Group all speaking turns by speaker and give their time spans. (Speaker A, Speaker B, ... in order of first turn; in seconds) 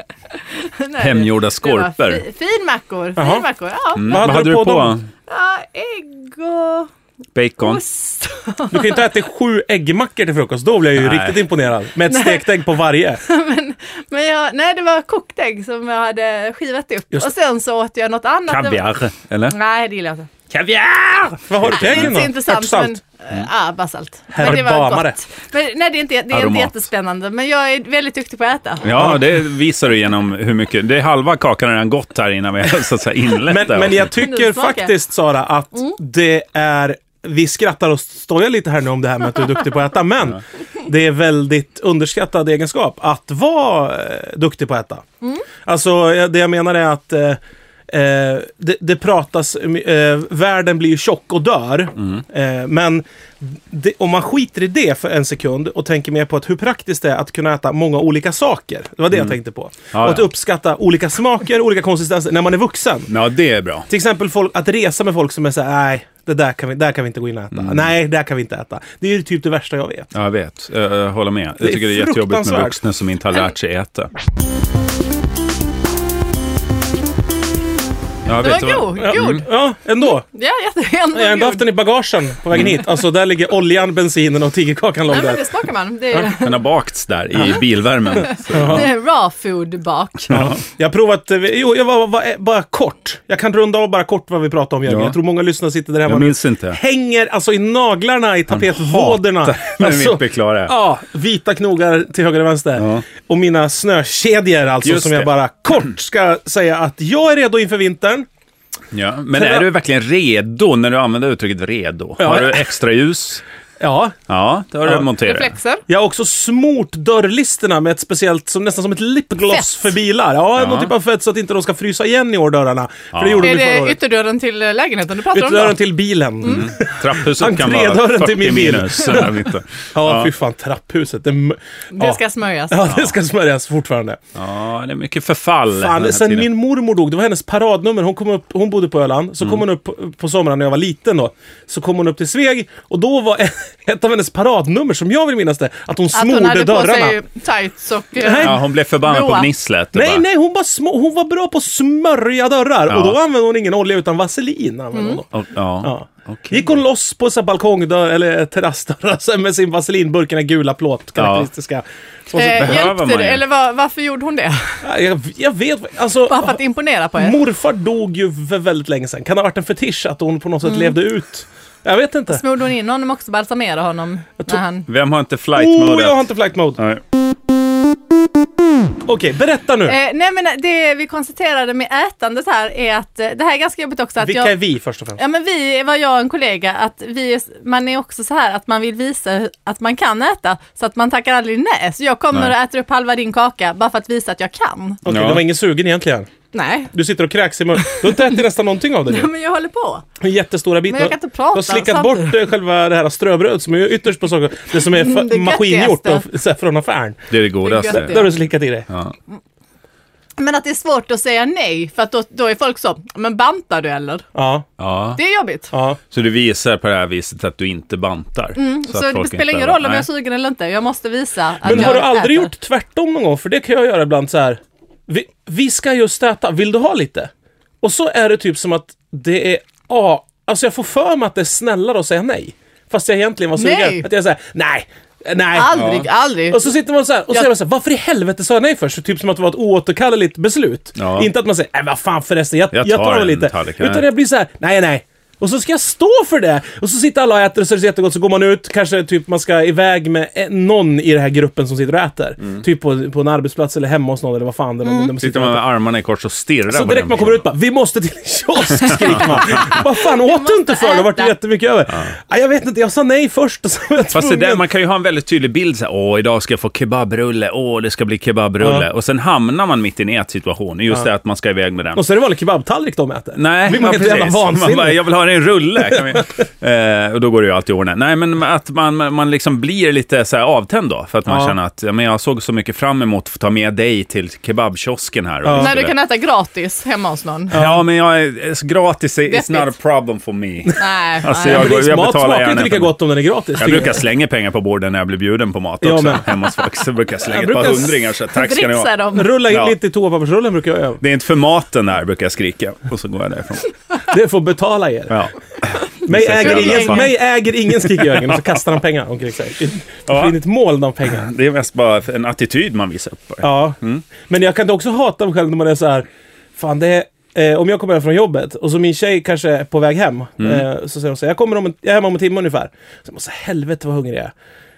Speaker A: 0.5-4.2, 5.3-6.9, 7.6-9.0, 12.1-12.5, 13.3-18.9, 19.5-20.3, 21.7-28.9, 34.2-34.9, 78.4-79.5, 80.0-81.6, 85.1-86.6, 88.6-90.4, 115.2-115.8, 123.4-125.8, 131.9-132.8, 146.1-149.5, 154.9-155.2, 162.3-164.8, 166.3-167.4, 170.7-171.0, 172.3-174.9, 179.9-184.5, 185.2-195.0, 196.5-196.9, 197.8-198.4, 199.1-200.1, 200.9-202.4, 204.8-206.2, 207.6-208.3, 210.4-214.2, 215.2-215.7, 218.6-222.5, 233.6-234.1, 235.5-236.6, 254.8-255.1, 258.9-261.3, 285.6-287.6, 289.3-289.7, 290.8-291.7, 298.3-299.3, 306.4-307.1
Speaker B: 1.0-2.2, 4.0-5.1, 7.3-7.8, 11.0-11.5, 18.5-19.6, 20.5-22.1, 26.3-26.8, 28.8-34.1, 59.9-60.3, 63.1-63.9, 67.5-67.9, 70.1-74.1, 78.3-79.4, 82.5-82.8, 86.1-88.9, 90.3-90.6, 94.9-95.2, 96.1-96.8, 98.5-100.8, 102.8-103.0, 104.8-105.3, 108.9-113.4, 114.3-115.5, 120.6-120.9, 123.1-123.5, 126.5-130.3, 132.9-133.2, 134.4-136.5, 148.4-150.2, 152.9-153.2, 155.3-156.8, 161.2-161.5, 162.4-163.4, 174.9-176.2, 195.1-195.4, 207.3-208.2, 208.9-209.1, 214.8-215.2, 216.1-220.1, 221.6-222.0, 235.8-236.1, 241.0-241.3, 242.7-244.1, 255.2-257.5, 258.9-259.7, 264.1-272.0, 273.4-285.9, 287.5-292.9, 293.6-298.9, 299.5-299.8, 301.0-303.7, 305.1-307.1, 307.9-308.6, 310.1-310.4, 311.1-314.1, 320.4-320.6
Speaker C: 3.2-3.4, 4.0-5.0, 8.7-13.2, 21.5-22.9, 24.3-25.2, 28.9-29.2, 33.5-45.0, 45.6-63.1, 63.9-70.1, 71.6-72.8, 79.0-80.2, 81.1-85.5, 88.5-88.9, 90.3-108.3, 109.3-109.7, 112.2-112.7, 113.8-114.2, 115.9-124.0, 125.3-129.4, 129.9-132.2, 132.7-134.2, 135.7-147.2, 148.2-148.6, 149.9-155.3, 155.8-162.9, 164.8-166.6, 167.2-172.4, 175.6-176.8, 179.1-179.9, 184.2-185.2, 195.1-196.3, 196.9-199.3, 200.2-207.3, 207.9-208.9, 214.3-214.7, 215.7-216.0, 221.6-227.3, 227.8-235.9, 236.5-255.6, 256.7-264.6, 268.6-268.9, 271.9-275.0, 281.3-281.6, 285.4-285.7, 287.5-287.8, 291.4-294.0, 295.8-296.4, 297.2-298.0, 299.1-301.0, 304.1-305.2, 306.1-311.3, 313.4-316.1, 316.6-324.3